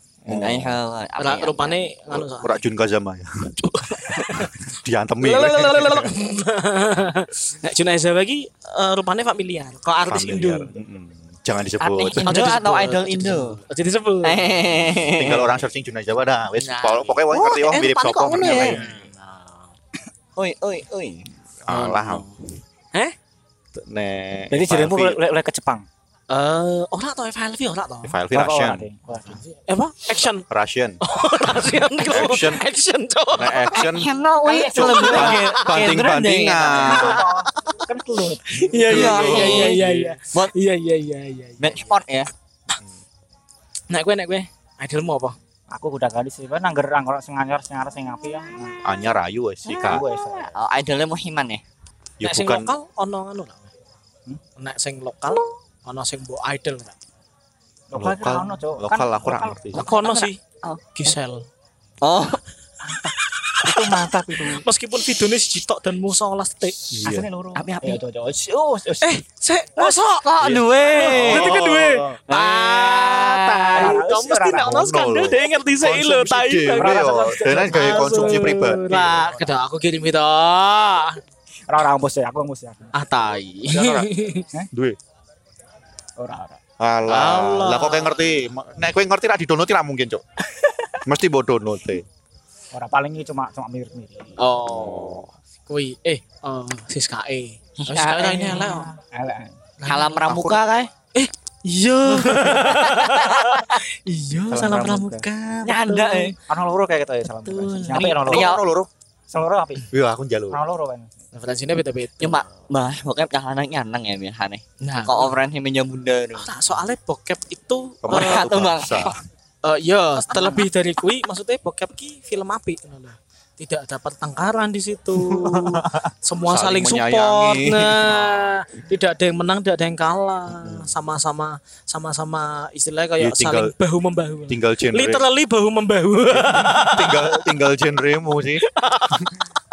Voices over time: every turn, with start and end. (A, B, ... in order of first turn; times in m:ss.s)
0:00.2-0:00.8 A
0:00.3-0:01.9 B
0:01.2-0:02.6 C
0:02.1-0:06.1 A
0:03.6-0:04.5 C
0:05.2-0:10.7 C
0:10.1-0:12.4 A
0:11.8-0:13.6 B
0:12.2-0:14.8 C
0:14.2-0:15.5 B
0:14.9-0:19.0 A
0:16.6-0:19.6 C
0:18.5-0:18.8 B
0:20.4-0:21.3 B
0:21.6-0:22.2 A
0:21.7-0:22.4 C
0:23.7-0:25.2 A
0:24.5-0:25.9 D
0:26.3-0:28.2 C
0:28.0-0:28.9 A
0:28.3-0:29.4 D
0:29.2-0:30.4 C
0:30.5-0:31.0 A
0:31.0-0:33.8 C
0:32.0-0:32.6 A
0:33.3-0:34.1 A
0:33.7-0:37.2 B
0:34.4-0:35.4 D
0:34.6-0:37.3 A
0:34.8-0:35.9 C
0:36.8-0:39.2 D
0:38.6-0:41.9 C
0:38.8-0:40.0 A
0:38.8-0:40.5 B
0:41.6-0:42.3 B
0:43.9-0:45.4 C
0:45.7-0:48.7 D
0:48.8-0:50.0 A
0:49.6-0:51.6 B
0:49.8-0:50.5 D
0:52.2-0:52.7 A
0:52.2-0:53.7 C
0:54.6-0:56.9 C
0:57.9-0:59.6 D
0:57.9-0:59.9 A
0:59.7-1:00.4 C
0:59.8-1:01.2 B
1:00.9-1:01.5 C
1:02.0-1:02.4 B
1:03.5-1:07.0 C
1:03.6-1:04.6 D
1:06.8-1:07.3 A
1:07.0-1:09.2 D
1:07.5-1:08.0 B
1:09.0-1:21.2 C
1:09.8-1:11.7 B
1:10.4-1:12.1 A
1:12.3-1:14.0 B
1:13.7-1:14.8 D
1:14.6-1:19.4 A
1:16.7-1:18.5 D
1:21.7-1:22.9 D
1:22.9-1:24.5 C
1:23.7-1:24.1 A
1:24.7-1:25.0 A
1:26.2-1:26.6 D
1:26.8-1:30.2 A
1:27.1-1:28.4 C
1:31.0-1:32.0 A
1:32.7-1:34.4 D
1:34.4-1:38.9 C
1:34.6-1:35.3 A
1:37.8-1:38.8 B
1:38.6-1:39.6 D
1:39.8-1:40.3 C
1:39.8-1:40.9 B
1:40.2-1:40.6 A
1:41.1-1:46.4 C
1:42.1-1:43.8 B
1:44.5-1:45.2 D
1:45.6-1:46.4 B
1:46.5-1:48.5 D
1:47.4-1:48.1 C
1:47.9-1:48.9 B
1:48.1-1:48.9 A
1:49.3-1:49.9 D
1:49.9-1:50.6 A
1:50.5-1:51.1 D
1:51.3-1:52.5 C
1:52.2-1:56.5 B
1:54.8-1:55.4 C
1:56.4-1:58.5 C
1:58.0-1:59.2 A
1:58.1-1:59.1 B
1:59.6-2:17.5 C
2:05.1-2:08.4 A
2:10.5-2:10.9 A
2:13.2-2:13.7 A
2:14.5-2:15.2 A
2:16.3-2:18.6 A
2:18.6-2:19.3 C